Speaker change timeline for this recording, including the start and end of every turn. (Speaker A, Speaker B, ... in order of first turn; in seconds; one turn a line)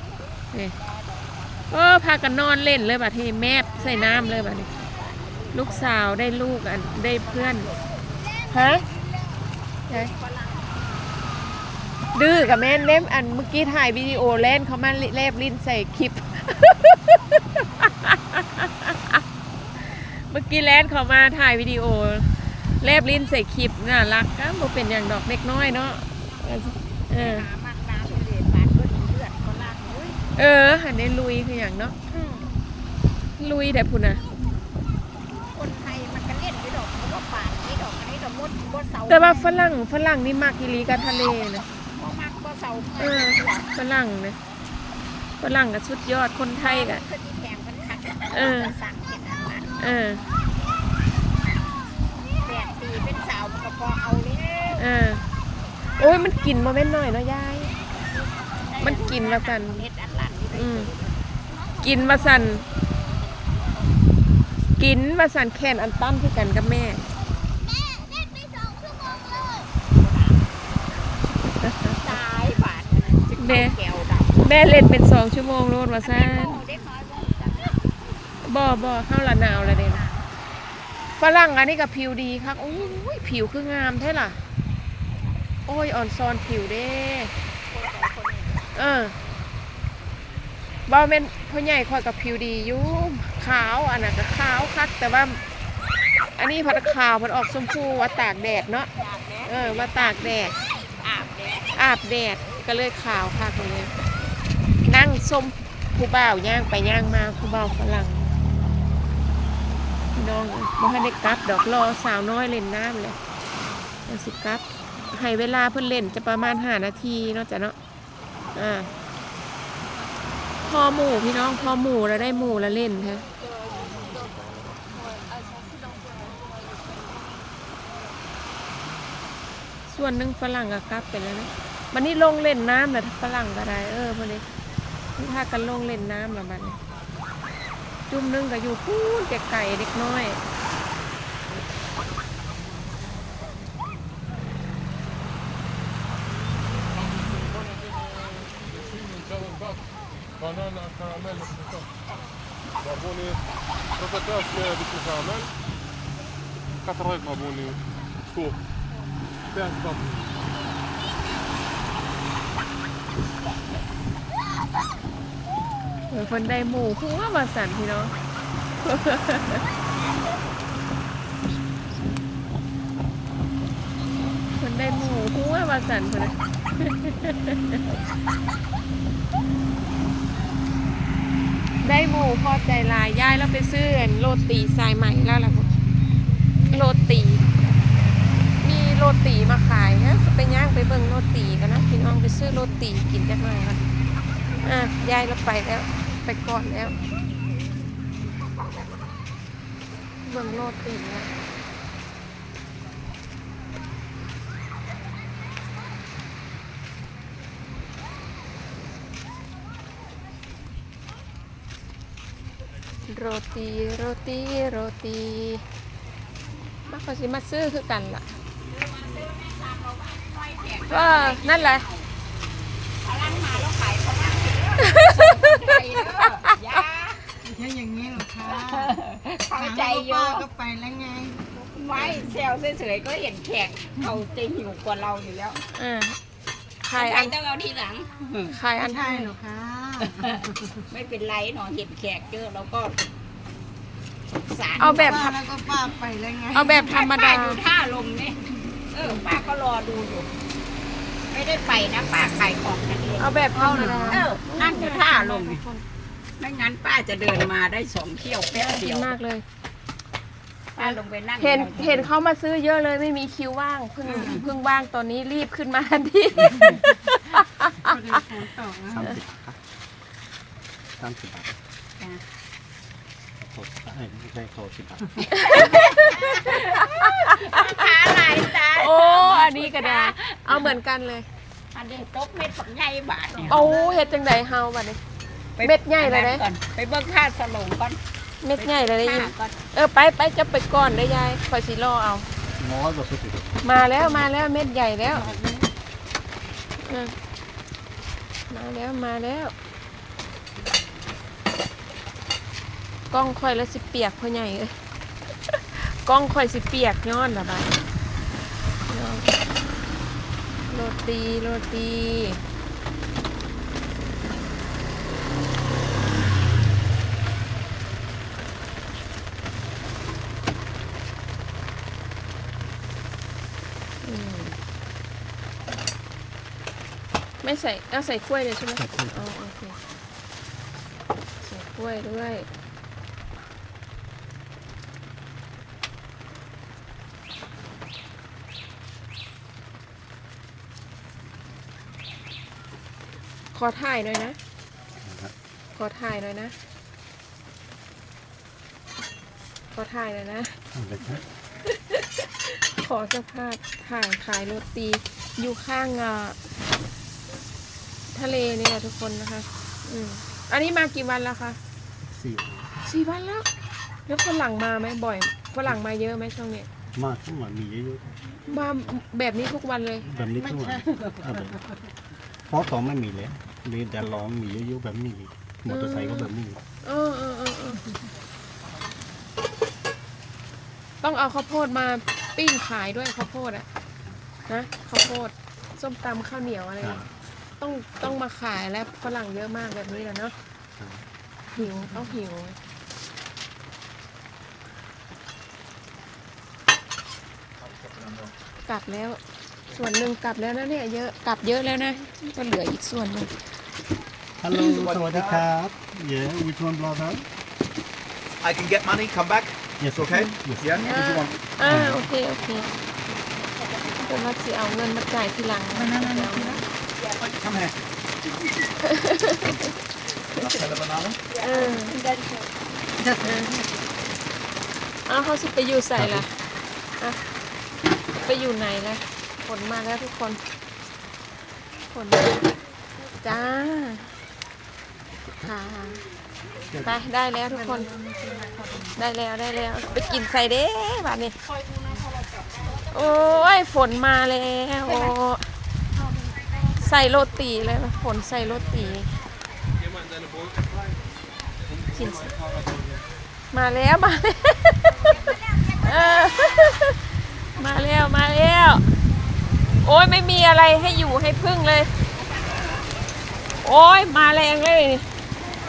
Speaker A: 1.7-4.7
Speaker B: 4.6-6.0
Speaker A: 5.5-7.7
Speaker B: 7.3-9.3
Speaker A: 8.5-8.8
Speaker B: 9.9-10.8
Speaker A: 12.1-19.2
Speaker A: 20.0-27.5
Speaker B: 27.2-30.2
Speaker A: 30.4-32.0
Speaker B: 32.1-32.5
Speaker A: 33.4-34.2
Speaker B: 35.5-39.5
Speaker A: 39.1-41.7
Speaker B: 41.9-43.7
Speaker A: 43.0-44.4
Speaker A: 45.4-47.0
Speaker B: 46.6-50.0
Speaker A: 48.3-48.8
Speaker A: 49.8-50.2
Speaker B: 52.4-54.8
Speaker A: 54.8-55.2
Speaker A: 56.0-57.7
Speaker B: 58.3-61.2
Speaker A: 58.8-59.9
Speaker A: 60.5-60.9
Speaker A: 61.8-62.7
Speaker A: 64.8-67.0
Speaker B: 68.8-71.1
Speaker A: 71.6-72.0
Speaker B: 71.9-74.5
Speaker A: 73.4-73.8
Speaker A: 74.4-76.6
Speaker B: 76.0-77.9
Speaker A: 78.5-80.0
Speaker A: 81.2-84.4
Speaker A: 85.7-87.3
Speaker B: 87.7-88.7
Speaker A: 88.8-89.2
Speaker A: 90.9-95.4
Speaker A: 96.4-98.9
Speaker B: 99.0-101.7
Speaker A: 99.5-100.5
Speaker A: 101.8-103.9
Speaker A: 104.8-108.3
Speaker A: 110.1-113.2
Speaker A: 114.1-117.8
Speaker A: 118.5-118.9
Speaker A: 120.7-123.3
Speaker C: 123.9-124.8
Speaker A: 129.9-134.4
Speaker A: 135.2-136.8
Speaker A: 138.1-140.4
Speaker C: 146.9-149.8
Speaker C: 150.4-151.9
Speaker C: 152.8-153.4
Speaker C: 154.0-155.5
Speaker C: 156.8-158.6
Speaker C: 159.5-160.3
Speaker A: 166.1-168.1
Speaker A: 168.8-169.6
Speaker A: 174.6-177.8
Speaker A: 181.8-185.7
Speaker A: 186.7-187.4
Speaker A: 188.6-193.8
Speaker A: 194.6-197.0
Speaker A: 200.2-201.3
Speaker A: 213.1-215.6
Speaker A: 216.9-218.2
Speaker B: 218.7-222.1
Speaker A: 220.9-221.9
Speaker B: 223.0-227.3
Speaker A: 224.9-225.5
Speaker D: 227.4-229.0
Speaker B: 228.4-230.5
Speaker D: 229.6-231.4
Speaker B: 231.6-235.6
Speaker A: 235.8-236.2
Speaker A: 236.8-237.4
Speaker B: 236.9-238.5
Speaker A: 238.5-239.3
Speaker D: 238.8-240.6
Speaker B: 240.0-243.0
Speaker B: 244.5-245.3
Speaker A: 244.8-245.3
Speaker D: 245.1-246.8
Speaker A: 246.5-247.6
Speaker B: 246.8-250.3
Speaker B: 251.3-255.6
Speaker A: 253.2-255.8
Speaker D: 253.6-254.1
Speaker B: 256.4-259.1
Speaker A: 258.5-259.4
Speaker B: 260.8-262.1
Speaker A: 260.8-268.2
Speaker B: 264.1-264.5
Speaker B: 266.5-266.8
Speaker D: 267.9-269.0
Speaker E: 268.1-268.5
Speaker F: 268.9-269.6
Speaker F: 271.0-271.6
Speaker F: 273.4-275.7
Speaker A: 275.3-277.7
Speaker B: 275.3-280.8
Speaker A: 278.4-281.3
Speaker B: 281.7-283.8
Speaker A: 283.5-285.0
Speaker B: 285.6-288.0
Speaker A: 285.6-286.4
Speaker A: 288.4-292.3
Speaker B: 288.6-289.6
Speaker F: 292.6-293.6
Speaker A: 293.6-295.3
Speaker F: 295.2-295.6
Speaker A: 296.8-297.1
Speaker A: 298.5-299.5
Speaker A: 303.1-304.7
Speaker A: 305.5-307.8
Speaker A: 308.9-309.3
Speaker A: 310.7-312.4
Speaker A: 324.0-324.6
Speaker A: 327.4-329.8
Speaker F: 328.8-329.2
Speaker A: 331.4-332.5
Speaker A: 343.5-344.4
Speaker F: 345.0-345.3
Speaker A: 345.8-346.6
Speaker A: 349.7-350.6
Speaker F: 350.7-351.2
Speaker A: 351.7-356.4
Speaker A: 358.1-361.6
Speaker F: 362.1-362.7
Speaker A: 362.8-363.5
Speaker A: 364.1-366.7
Speaker F: 366.9-368.2
Speaker A: 368.5-370.1
Speaker F: 370.1-371.6
Speaker D: 370.5-370.8
Speaker F: 372.5-376.6
Speaker A: 375.7-376.3
Speaker A: 376.8-377.8
Speaker A: 381.0-383.7
Speaker A: 384.5-387.0
Speaker F: 386.8-387.1
Speaker A: 387.6-390.4
Speaker F: 390.8-391.1
Speaker A: 391.6-392.6
Speaker E: 397.6-398.3
Speaker A: 398.6-403.4
Speaker F: 404.4-407.3
Speaker E: 404.6-405.4
Speaker E: 408.4-411.3
Speaker F: 409.8-411.0
Speaker A: 410.9-412.7
Speaker F: 411.6-412.1
Speaker B: 413.6-414.2
Speaker A: 414.0-416.6
Speaker D: 415.8-416.6
Speaker E: 417.2-418.6
Speaker A: 418.9-419.7
Speaker E: 420.4-421.2
Speaker B: 421.3-422.3
Speaker A: 421.4-422.0
Speaker D: 423.0-423.7
Speaker A: 423.2-423.5
Speaker A: 425.1-426.3
Speaker F: 426.0-426.3
Speaker A: 428.2-430.4
Speaker A: 431.9-432.5
Speaker A: 433.2-434.1
Speaker A: 435.4-436.1
Speaker F: 436.7-437.0
Speaker A: 436.8-437.9
Speaker D: 437.9-438.8
Speaker A: 438.9-441.4
Speaker B: 441.5-443.4
Speaker A: 442.9-445.4
Speaker A: 446.8-449.1
Speaker A: 451.9-452.3
Speaker A: 453.5-457.0
Speaker A: 457.6-458.8
Speaker A: 459.8-461.9
Speaker A: 463.6-465.1